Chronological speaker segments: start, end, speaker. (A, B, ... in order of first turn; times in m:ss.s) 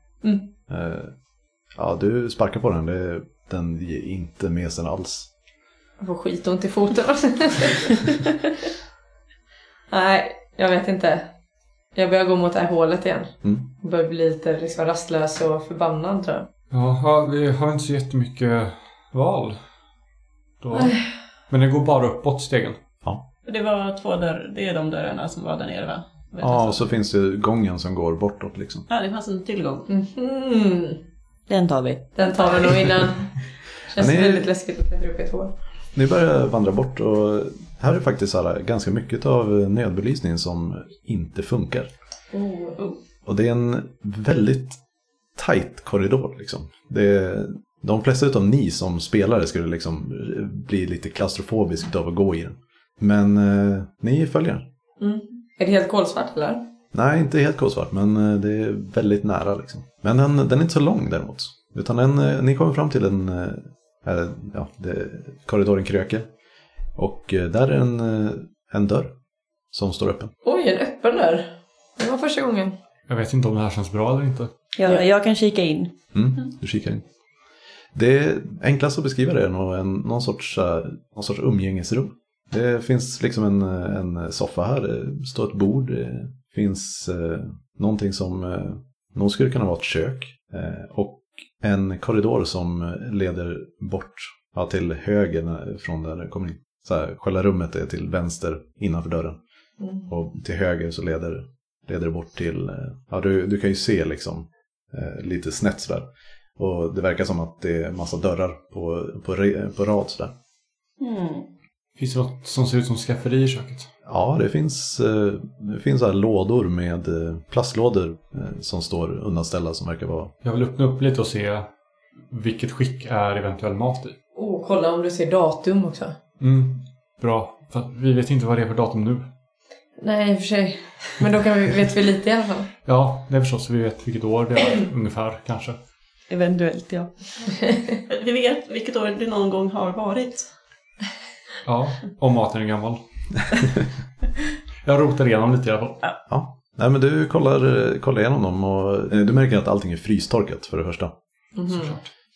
0:00.2-0:00.5 A
0:00.7-0:01.1 B
0:01.8-0:05.3 B
0:06.0-0:08.2 A
0:09.9-0:11.3 A
0:12.0-0:16.5 A
0:16.7-0:19.6 C
0:20.6-0:22.8 C
0:23.4-0:26.8 D
0:26.4-0:28.9 B
0:28.9-0:29.9 D
0:29.9-0:31.0 A
0:31.5-0:32.2 E
0:32.2-0:35.5 A
0:34.0-0:34.5 B
0:35.9-0:41.9 B
0:42.3-0:42.8 A
0:43.2-0:44.8 B
0:45.4-0:54.7 B
0:55.0-0:56.7 A
0:56.9-1:06.3 B
1:07.0-1:09.1 B
1:09.7-1:10.3 B
1:10.4-1:12.8 A
1:13.1-1:14.5 C
1:14.8-1:16.0 E
1:16.1-1:17.0 B
1:17.9-1:39.4 B
1:39.8-1:40.1 A
1:40.1-1:46.1 B
1:46.6-1:50.3 B
1:51.0-1:51.5 E
1:52.0-1:53.9 C
1:54.1-2:00.3 B
2:00.4-2:01.7 C
2:02.3-2:04.2 C
2:04.4-2:06.2 A
2:06.4-2:09.3 C
2:10.0-2:12.7 A
2:12.8-2:15.8 C
2:16.3-2:17.1 E
2:18.1-2:20.5 D
2:21.6-2:23.0 C
2:24.8-2:26.0 C
2:26.3-2:31.1 B
2:31.6-2:32.0 A
2:31.7-2:32.1 C